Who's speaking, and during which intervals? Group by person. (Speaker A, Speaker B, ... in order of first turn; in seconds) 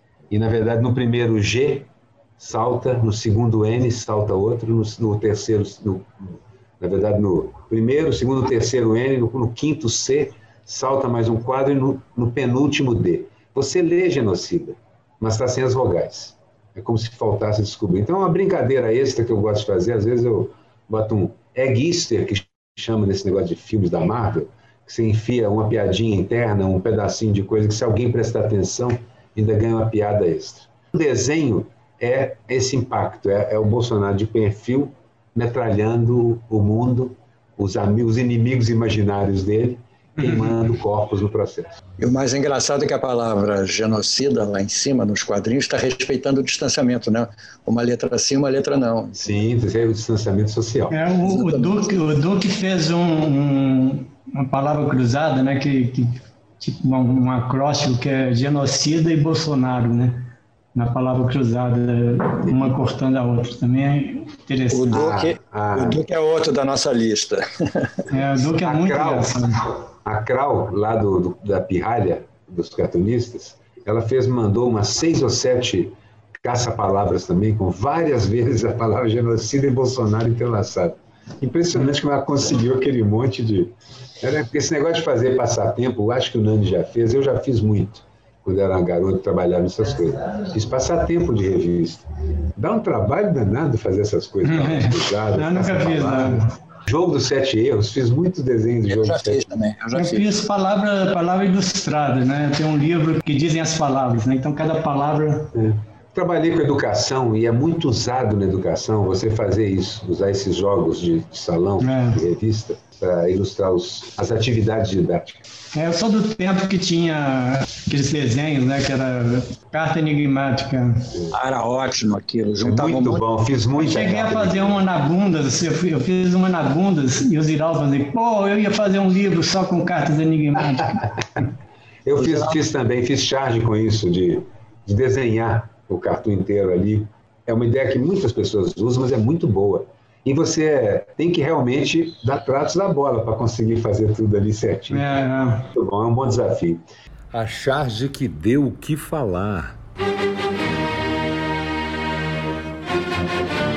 Speaker A: 0.3-41.8, 49.2-51.0, 64.9-66.0, 68.6-99.4, 105.5-115.4, 122.6-124.8, 132.1-145.2, 145.7-146.8
Speaker B: 42.0-49.2, 51.2-51.8, 64.7-68.0, 98.9-100.3, 121.3-123.2, 132.2-132.6
Speaker C: 50.9-65.0, 68.1-69.6, 94.5-96.5, 100.0-105.5, 111.8-112.2, 115.7-121.1, 123.8-131.0, 144.9-145.7
Speaker D: 147.3-149.8